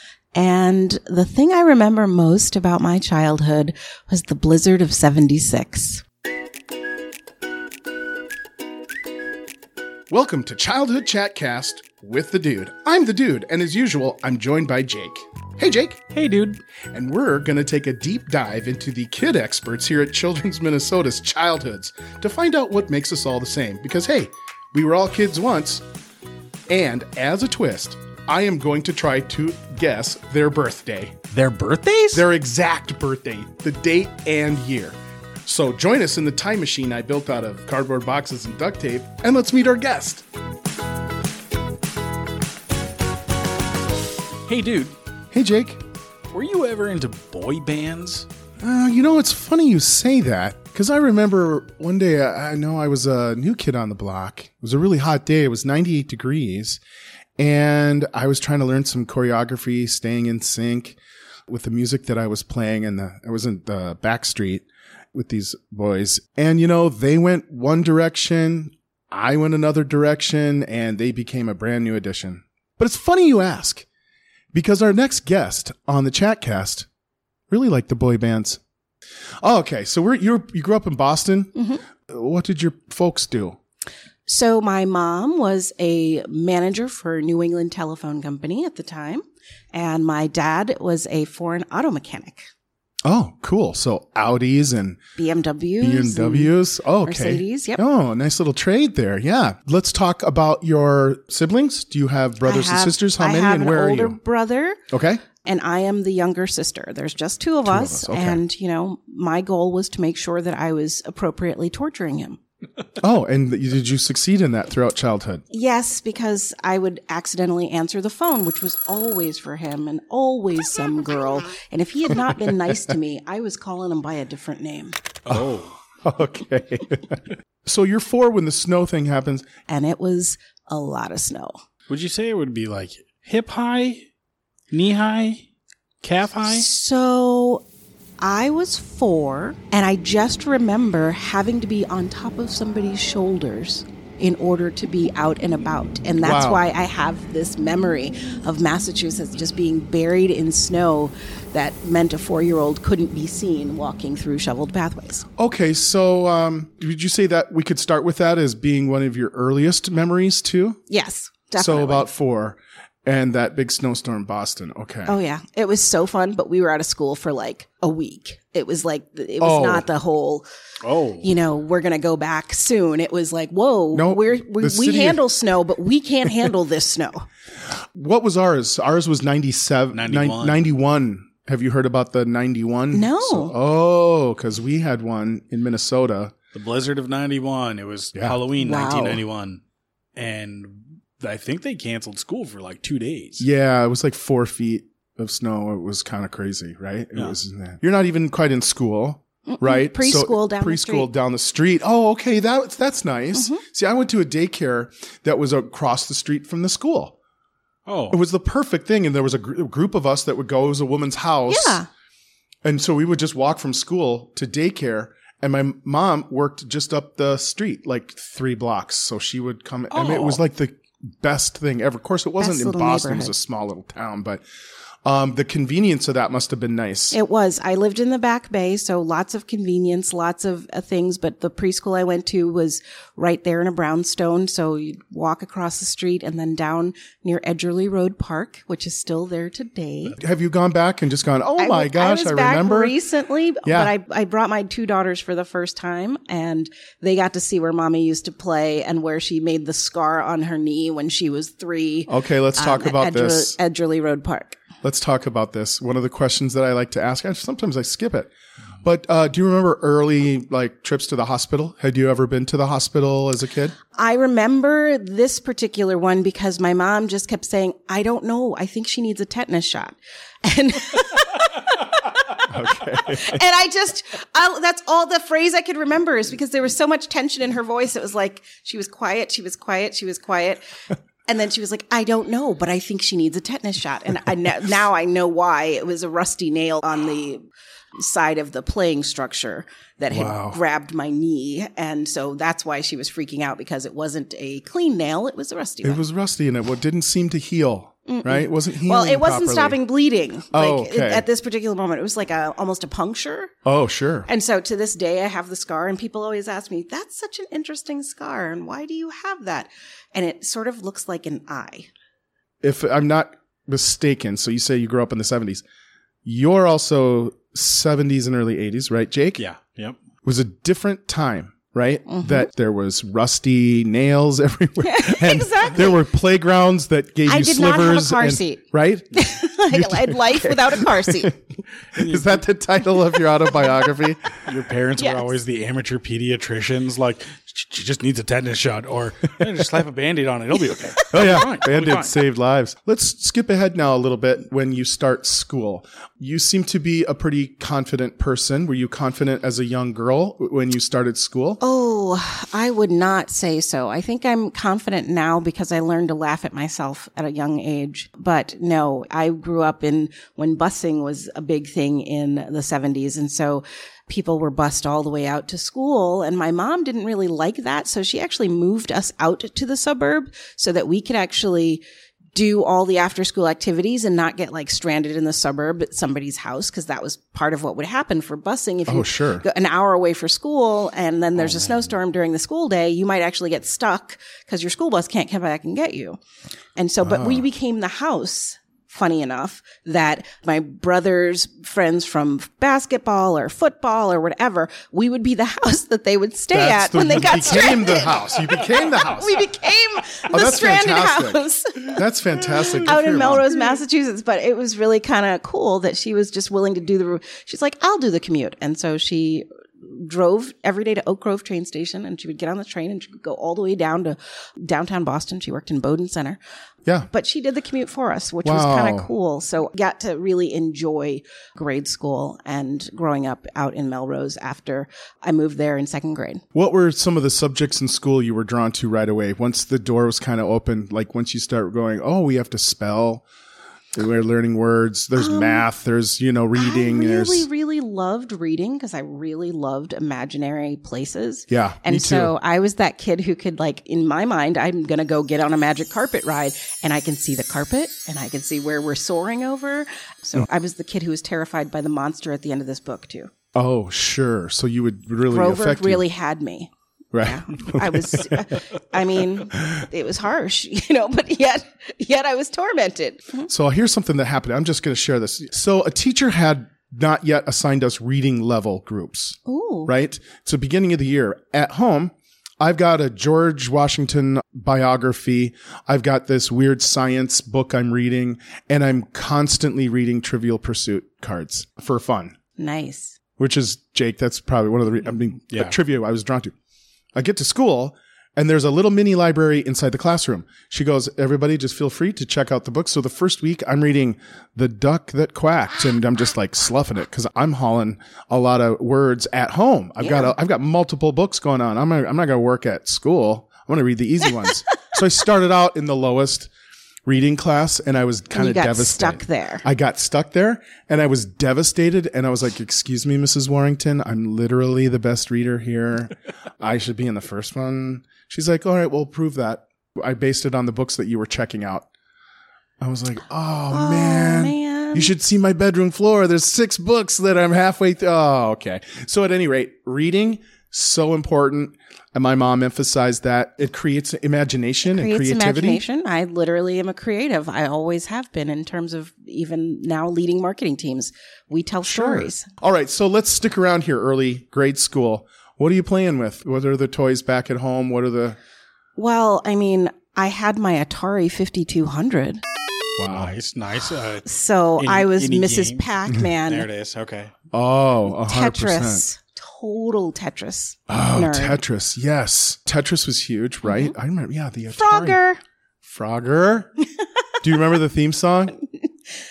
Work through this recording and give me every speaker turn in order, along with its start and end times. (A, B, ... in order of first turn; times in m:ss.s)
0:00.3-0:06.0 A
0:10.1-0:16.0 B
0:16.1-0:16.6 C
0:16.9-0:25.8 B
0:26.7-0:31.2 B
0:31.3-0:32.2 C
0:32.1-0:40.2 B
0:44.5-0:45.0 C
0:45.3-0:45.8 B
0:46.3-0:48.3 C
0:48.6-0:56.8 B
0:57.4-1:01.0 B
1:01.5-1:13.9 B
1:14.5-1:16.9 B
1:17.5-1:18.6 B
1:19.4-1:21.5 B
1:21.6-1:21.8 A
1:22.1-1:23.6 B
1:24.3-1:32.5 A
1:33.0-1:35.0 B
1:35.2-1:37.8 A
1:35.8-1:44.2 B
1:42.4-1:44.9 A
1:44.9-1:45.2 B
1:45.4-1:52.4 A
1:47.6-1:48.4 B
1:53.0-1:55.4 B
1:55.5-2:05.0 A
2:02.2-2:03.0 B
2:05.2-2:05.8 C
2:05.3-2:09.5 B
2:09.7-2:11.6 A
2:11.9-2:14.1 C
2:14.7-2:15.4 C
2:16.0-2:16.7 C
2:16.5-2:17.6 A
2:18.2-2:35.2 A
2:26.2-2:26.6 B
2:35.4-2:40.8 B
2:40.9-2:42.1 A
2:41.6-2:45.2 B
2:45.1-2:50.5 A
2:49.4-2:49.9 B
2:50.8-2:51.3 C
2:51.2-2:57.3 A
2:53.9-2:55.2 B
2:57.9-3:06.3 B
2:59.9-3:00.6 C
3:02.9-3:03.6 A
3:06.5-3:09.6 C
3:08.6-3:09.2 A
3:10.2-3:13.5 C
3:13.4-3:27.2 B
3:19.5-3:21.1 A
3:23.3-3:23.6 A
3:27.9-3:28.2 C
3:28.1-3:31.8 B
3:31.5-3:31.9 A
3:32.6-3:44.4 B
3:39.9-3:40.4 C
3:42.4-3:43.3 A
3:45.0-3:47.2 B
3:47.1-4:00.2 A
4:00.2-4:02.9 B
4:01.6-4:14.6 A
4:03.6-4:03.9 B
4:12.1-4:13.6 B
4:14.8-4:18.3 B
4:18.8-4:23.8 B
4:23.9-4:40.6 A
4:32.5-4:33.4 B
4:41.3-4:47.4 A
4:48.0-4:56.0 A
4:50.1-4:50.6 B
4:55.8-4:59.8 B
4:58.1-5:03.5 A
5:00.5-5:01.2 B
5:03.6-5:04.3 B
5:04.2-5:11.9 A
5:12.6-5:15.6 B
5:16.2-5:19.4 B
5:19.4-5:20.0 C
5:20.2-5:34.4 B
5:22.1-5:22.5 A
5:24.8-5:26.0 A
5:27.2-5:31.3 A
5:31.9-5:32.4 C
5:34.4-5:42.2 C
5:35.0-5:35.3 A
5:41.1-5:51.6 B
5:51.6-6:11.8 A
6:12.3-6:26.2 A
6:18.9-6:19.4 B
6:21.5-6:21.8 C
6:26.8-6:42.0 A
6:27.0-6:27.4 B
6:36.5-6:39.4 B
6:40.3-6:43.5 B
6:42.8-6:56.4 A
6:57.1-7:06.4 A
6:58.4-6:59.1 B
7:06.5-7:13.2 B
7:13.9-7:17.5 B
7:15.2-7:15.6 A
7:16.6-7:33.3 A
7:21.5-7:22.3 B
7:33.6-7:36.0 B
7:35.3-7:43.5 A
7:37.1-7:38.5 B
7:39.5-7:39.8 B
7:43.5-8:02.4 B
7:49.4-7:49.9 A
8:02.6-8:03.2 A
8:03.4-8:06.5 B
8:07.1-8:26.5 B
8:20.0-8:20.3 A
8:27.0-8:41.9 B
8:28.3-8:29.6 A
8:42.8-8:55.8 B
8:43.7-8:45.1 A
8:54.9-9:02.5 A
9:01.8-9:08.4 B
9:09.0-9:12.4 A
9:13.0-9:13.3 B
9:13.1-9:14.3 C
9:14.2-9:16.7 A
9:14.8-9:17.3 C
9:17.5-9:19.0 B
9:18.2-9:21.6 A
9:20.9-9:25.2 B
9:23.6-9:23.9 A
9:24.7-9:25.4 A
9:25.8-9:26.7 B
9:27.4-9:28.6 B